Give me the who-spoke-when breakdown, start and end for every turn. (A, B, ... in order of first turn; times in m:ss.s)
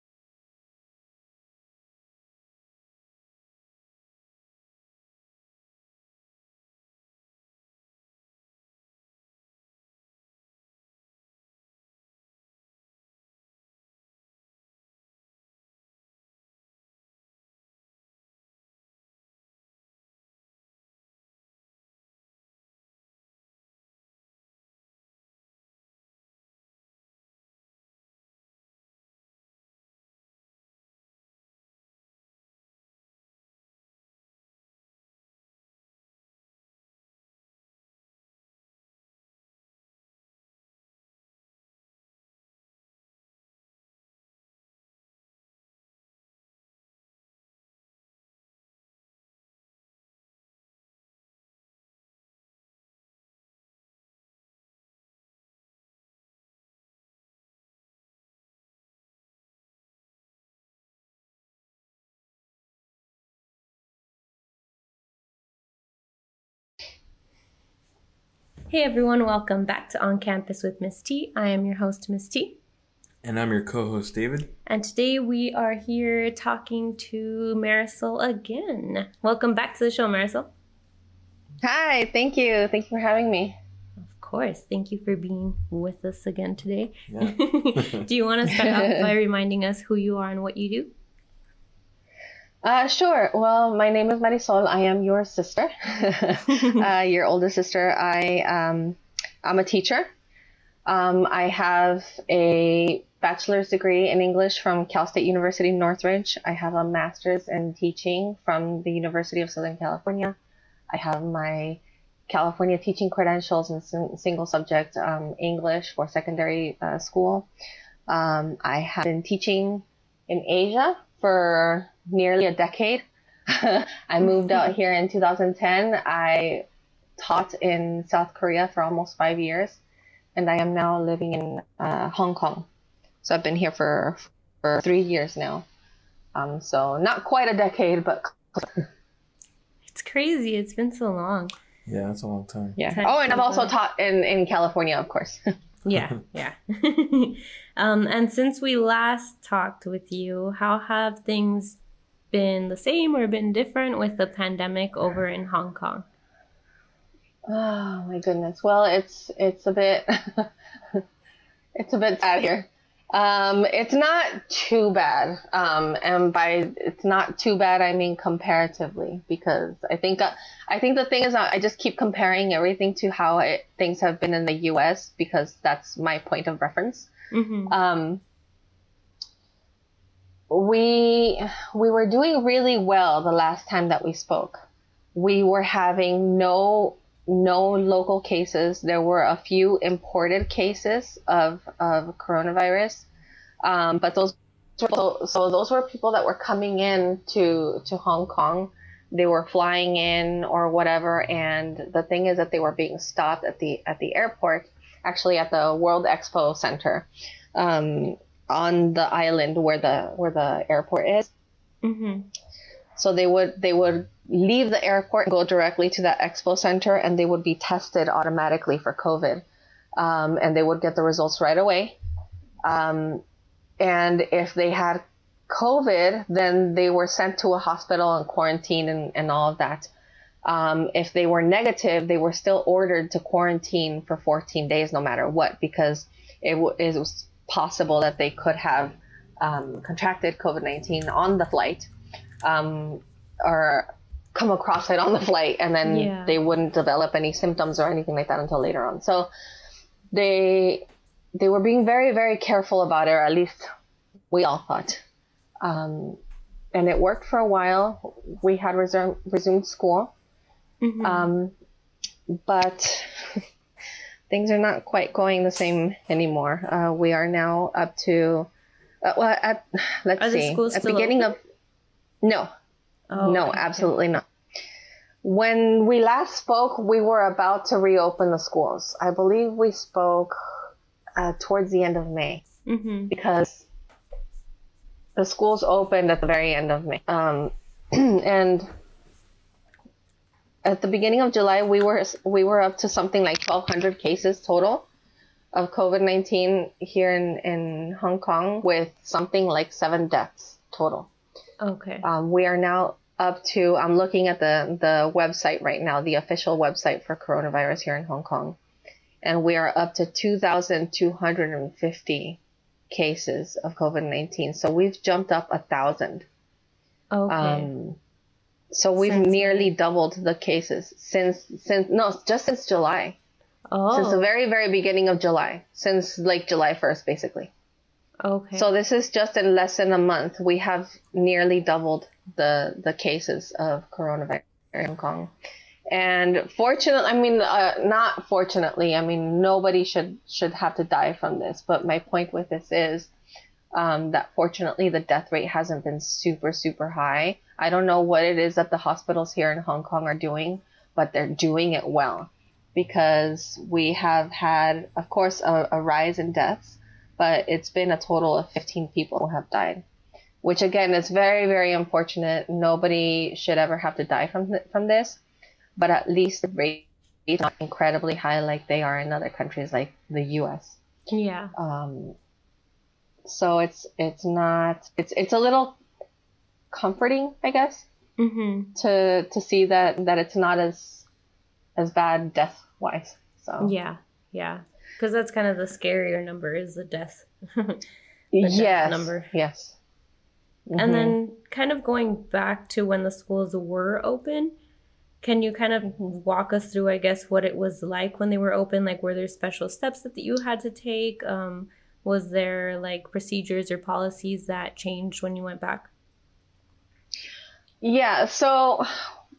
1:08.7-1:12.6 A
1:13.2-1:14.5 B
1:14.7-1:20.5 A
1:21.6-1:23.6 C
1:24.0-1:30.9 A
1:27.1-1:28.0 B
1:28.5-1:29.1 C
1:32.6-1:40.1 C
1:40.9-1:50.4 C
1:50.9-1:57.5 C
1:58.1-2:06.6 C
2:07.2-2:09.8 C
2:10.3-2:12.7 C
2:13.2-2:15.6 C
2:16.3-2:18.8 C
2:19.9-2:21.5 A
2:21.9-2:22.8 B
2:22.8-2:25.4 C
2:22.8-2:23.7 A
2:25.8-2:31.8 A
2:32.3-2:36.0 A
2:37.5-2:41.0 C
2:41.8-2:57.1 C
2:57.3-2:57.7 A
2:57.7-2:58.2 C
3:00.5-3:04.6 C
3:05.1-3:13.1 C
3:13.6-3:31.3 C
3:31.8-3:32.3 A
3:33.0-3:39.4 C
3:40.0-3:42.0 C
3:42.6-3:43.2 C
3:43.8-3:49.9 C
3:50.4-4:01.9 C
4:02.4-4:09.3 C
4:05.8-4:06.4 A
4:10.1-4:10.8 C
4:11.4-4:13.7 C
4:14.3-4:15.0 C
4:15.6-4:16.2 C
4:16.7-4:20.1 C
4:20.8-4:21.3 A
4:21.0-4:21.5 C
4:22.3-4:23.4 C
4:24.3-4:28.5 C
4:29.0-4:31.4 C
4:30.2-4:31.2 A
4:32.2-4:32.5 C
4:33.1-4:33.9 A
4:33.2-4:34.2 C
4:35.2-4:40.3 C
4:41.2-4:42.4 C
4:42.6-4:43.1 A
4:43.1-4:43.7 C
4:45.2-4:48.7 C
4:50.6-4:54.8 C
4:55.5-5:01.1 C
5:01.6-5:02.0 A
5:02.0-5:08.6 C
5:09.2-5:16.2 C
5:17.1-5:17.7 A
5:17.3-5:18.0 C
5:18.7-5:23.2 C
5:19.0-5:19.7 A
5:23.7-5:24.3 A
5:23.9-5:27.5 C
5:28.2-5:28.7 A
5:28.5-5:35.3 C
5:35.9-5:43.1 C
5:43.7-5:59.8 C
6:00.4-6:05.2 C
6:05.8-6:10.8 C
6:11.1-6:11.5 A
6:11.6-6:12.2 C
6:13.2-6:15.8 C
6:16.7-6:17.9 C
6:18.2-6:18.7 A
6:18.8-6:21.0 C
6:21.8-6:23.7 C
6:23.6-6:27.8 A
6:28.3-6:29.8 C
6:28.4-6:29.3 A
6:30.7-6:31.1 C
6:30.8-6:34.5 A
6:35.2-6:45.9 A
6:47.8-6:48.9 C